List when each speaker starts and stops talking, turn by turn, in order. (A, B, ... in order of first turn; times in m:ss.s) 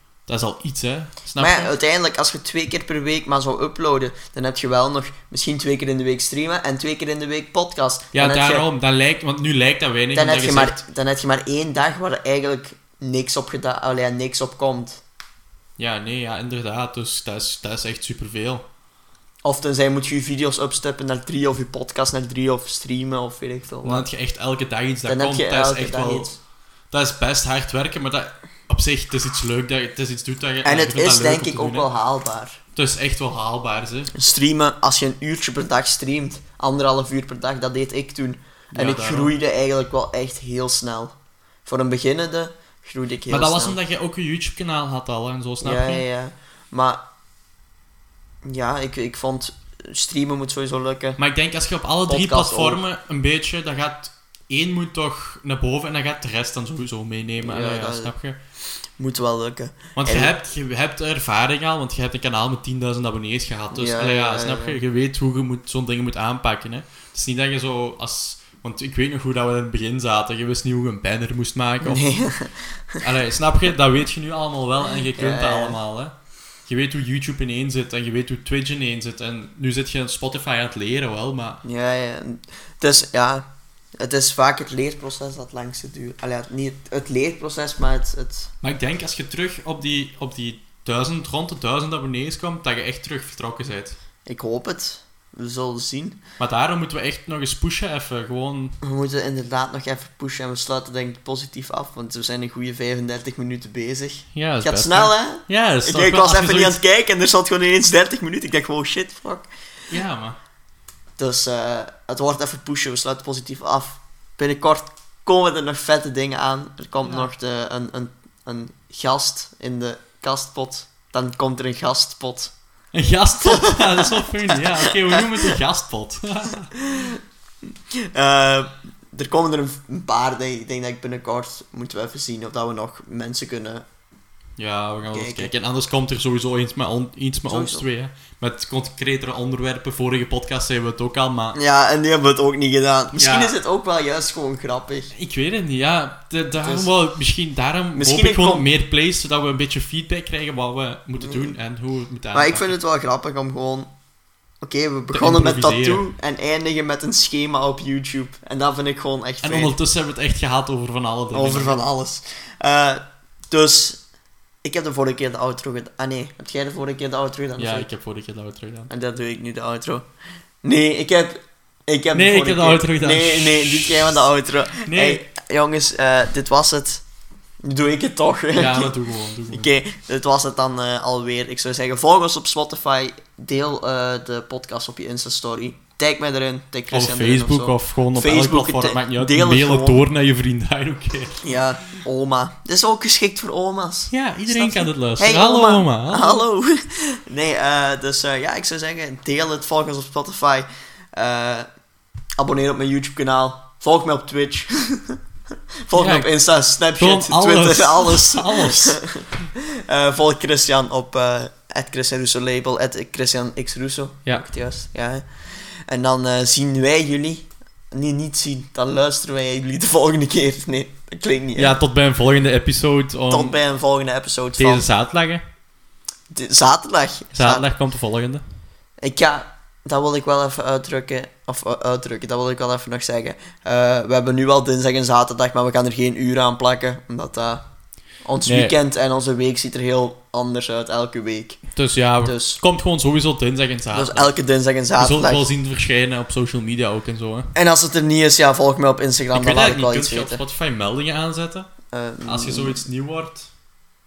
0:00.3-0:01.7 A
0:01.4-0:08.7 B
0:08.1-0:10.8 A
0:10.2-0:15.0 B
0:15.8-0:18.7 A
0:19.4-0:24.1 B
0:23.8-0:26.3 A
0:25.1-0:26.4 B
0:26.9-0:31.9 A
0:30.6-0:32.6 B
0:32.8-0:34.1 A
0:34.1-0:41.1 B
0:38.7-0:39.3 A
0:41.6-0:43.8 B
0:43.3-0:46.0 A
0:45.6-0:47.0 B
0:48.4-0:51.2 B
0:51.2-0:58.4 A
0:52.1-0:52.8 B
0:57.4-0:58.1 B
0:59.0-1:00.3 B
1:00.0-1:12.1 A
1:03.7-1:04.8 B
1:11.8-1:13.0 B
1:13.0-1:16.2 A
1:15.2-1:15.8 B
1:16.7-1:21.6 A
1:21.6-1:23.5 B
1:24.0-1:28.5 B
1:28.6-1:34.0 A
1:34.3-1:36.2 B
1:36.4-1:38.8 A
1:38.8-1:49.5 B
1:44.3-1:46.8 A
1:49.9-1:50.4 A
1:51.2-2:02.5 B
1:57.0-1:57.3 A
2:02.9-2:06.7 A
2:03.4-2:05.5 B
2:06.7-2:07.2 B
2:07.9-2:13.8 B
2:14.6-2:21.6 A
2:15.1-2:15.5 B
2:17.5-2:17.8 B
2:21.6-2:25.1 B
2:23.1-2:23.6 A
2:25.1-2:32.8 A
2:26.6-2:26.9 B
2:28.0-2:28.7 B
2:31.2-2:31.6 B
2:32.3-2:33.9 B
2:34.6-2:39.7 B
2:35.1-2:36.1 A
2:39.4-2:41.8 A
2:41.3-2:44.0 B
2:44.6-2:47.9 B
2:47.6-2:48.9 A
2:48.9-2:50.0 B
2:50.6-2:57.0 B
2:52.1-2:55.2 A
2:57.6-2:59.0 B
2:58.5-2:59.7 A
2:59.5-3:10.0 B
3:06.9-3:11.6 A
3:11.4-3:21.7 B
3:14.1-3:16.4 A
3:22.4-3:25.2 B
3:25.9-3:41.8 B
3:25.9-3:26.3 A
3:27.0-3:29.0 A
3:41.6-3:43.6 A
3:43.3-3:44.9 B
3:44.6-3:45.4 A
3:46.3-3:47.7 B
3:47.3-3:48.4 A
3:49.0-3:57.6 B
3:58.2-4:01.6 B
3:58.4-3:58.8 A
4:01.7-4:04.3 A
4:02.2-4:02.6 B
4:03.9-4:05.5 B
4:05.0-4:07.5 A
4:07.6-4:10.4 B
4:09.3-4:11.7 A
4:11.9-4:12.8 B
4:12.3-4:13.5 A